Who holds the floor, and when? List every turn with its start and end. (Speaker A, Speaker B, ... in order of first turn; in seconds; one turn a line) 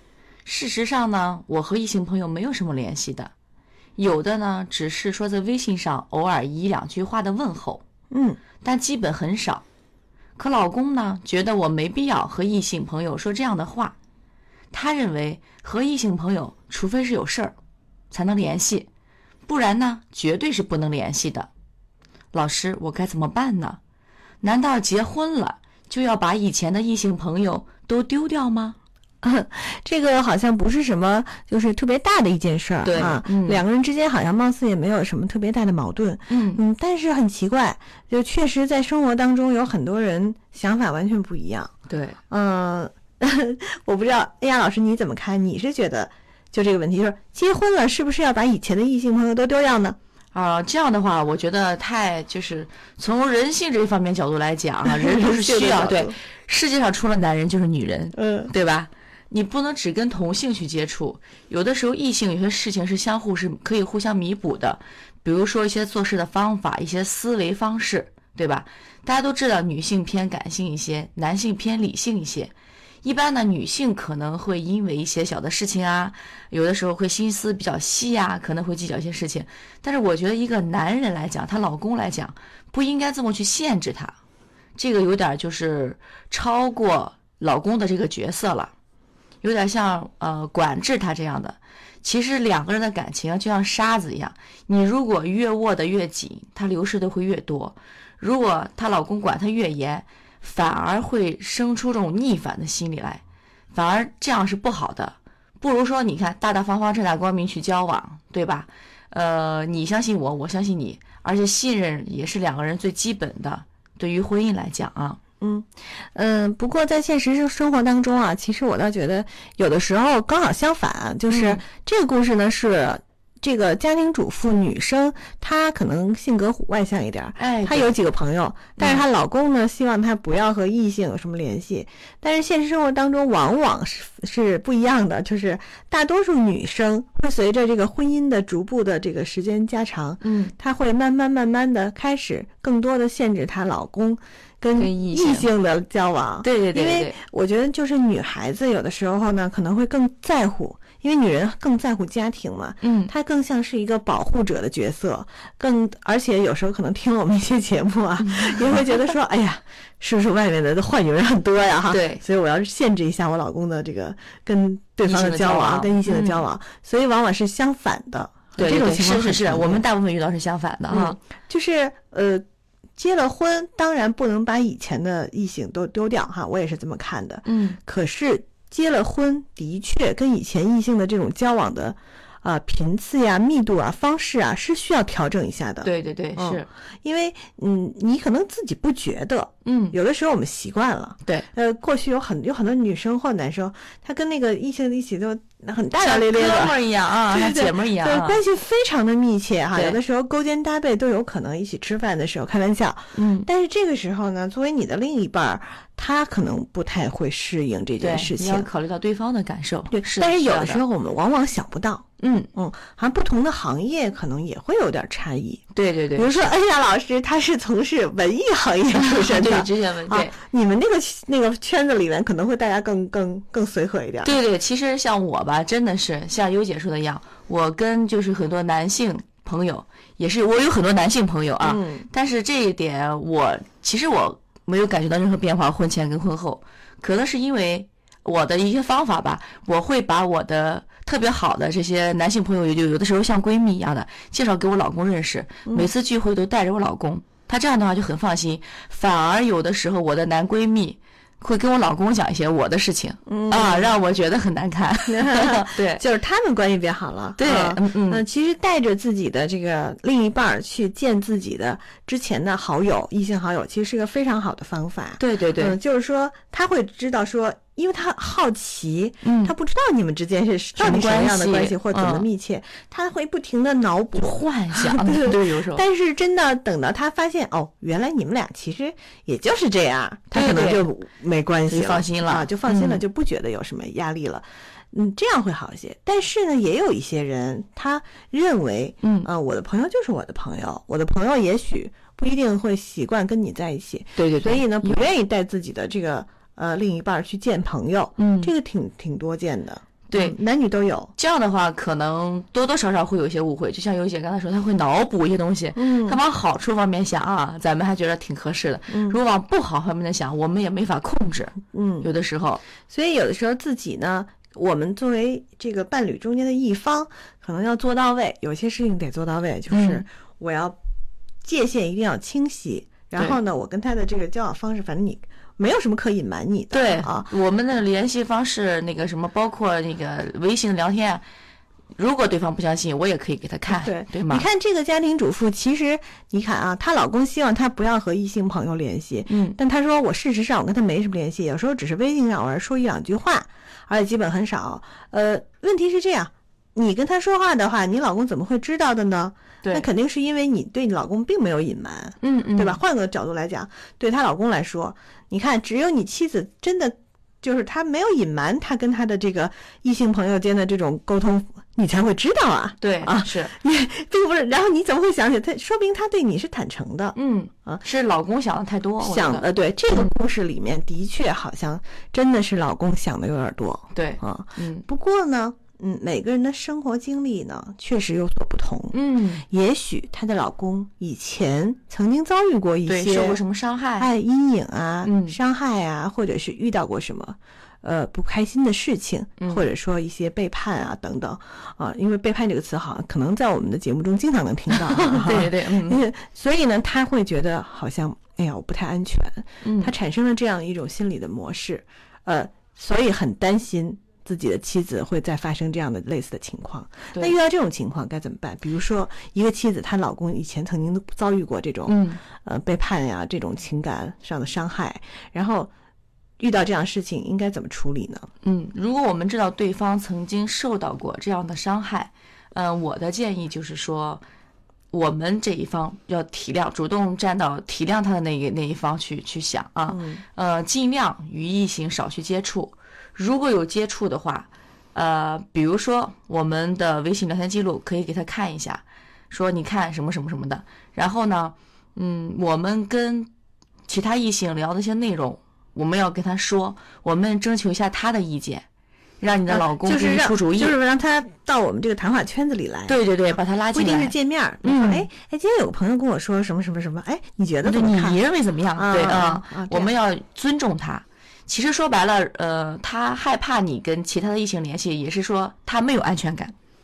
Speaker A: 0.5-3.3
Speaker A: 4.0-7.8
Speaker B: 8.1-8.4
Speaker A: 8.6-9.6
Speaker A: 10.4-13.9
Speaker A: 14.7-17.6
Speaker A: 18.1-18.9
Speaker A: 19.5-21.5
Speaker A: 22.3-23.8
Speaker A: 24.4-28.8
Speaker B: 29.2-41.7
Speaker A: 32.8-33.6
Speaker A: 36.3-36.6
Speaker A: 41.9-42.2
Speaker B: 42.3-50.0
Speaker A: 50.3-84.2
Speaker B: 54.9-56.2
Speaker B: 58.1-58.5
Speaker A: 84.8-88.7
Speaker A: 89.4-103.2
Speaker A: 103.7-115.2
Speaker B: 115.4-169.9
Speaker A: 121.3-121.6
Speaker A: 127.4-127.9
Speaker A: 128.8-129.1
Speaker A: 140.2-140.5
Speaker A: 144.8-145.5
Speaker A: 146.4-147.2
Speaker A: 152.8-153.1
Speaker A: 158.2-159.0
Speaker A: 161.9-162.2
Speaker A: 165.0-166.5
Speaker A: 168.6-171.2
Speaker B: 170.9-172.4
Speaker B: 173.0-208.7
Speaker A: 177.4-177.8
Speaker A: 185.8-186.7
Speaker A: 189.7-190.0
Speaker A: 196.0-198.4
Speaker A: 199.7-200.0
Speaker A: 203.2-203.5
Speaker A: 208.0-210.8
Speaker B: 209.9-215.6
Speaker A: 212.2-212.5
Speaker A: 215.7-216.5
Speaker B: 216.2-224.4
Speaker A: 218.9-220.4
Speaker A: 224.2-256.0
Speaker B: 231.6-232.1
Speaker B: 253.3-254.0
Speaker B: 255.1-301.1
Speaker A: 257.4-258.3
Speaker A: 265.2-265.8
Speaker A: 269.2-269.6
Speaker A: 270.8-272.3
Speaker A: 274.1-275.9
Speaker A: 280.3-280.9
Speaker A: 281.7-283.0
Speaker A: 289.0-289.3
Speaker A: 294.2-295.1
Speaker A: 298.2-298.5
Speaker A: 300.1-300.4
Speaker A: 301.2-312.6
Speaker B: 305.8-306.2
Speaker B: 308.9-309.2
Speaker B: 311.7-312.1
Speaker B: 312.9-320.8
Speaker A: 319.7-320.1
Speaker B: 321.4-327.3
Speaker A: 326.7-331.2
Speaker A: 332.0-334.5
Speaker B: 333.7-367.8
Speaker A: 339.3-339.6
Speaker A: 349.6-349.9
Speaker A: 352.2-352.8
Speaker A: 362.8-363.5
Speaker A: 367.2-370.1
Speaker B: 369.0-379.0
Speaker A: 373.9-374.9
Speaker A: 378.9-379.4
Speaker B: 379.5-383.4
Speaker A: 382.9-384.1
Speaker B: 384.0-415.7
Speaker A: 385.0-385.4
Speaker A: 389.4-389.7
Speaker A: 394.7-396.0
Speaker A: 399.6-399.9
Speaker A: 411.9-412.2
Speaker B: 416.4-418.3
Speaker A: 418.4-424.2
Speaker A: 424.9-443.3
Speaker B: 429.9-430.2
Speaker A: 443.9-448.6
Speaker A: 449.2-450.8
Speaker B: 449.5-453.0
Speaker A: 452.9-455.1
Speaker B: 453.7-458.2
Speaker A: 457.6-466.5
Speaker B: 458.8-459.9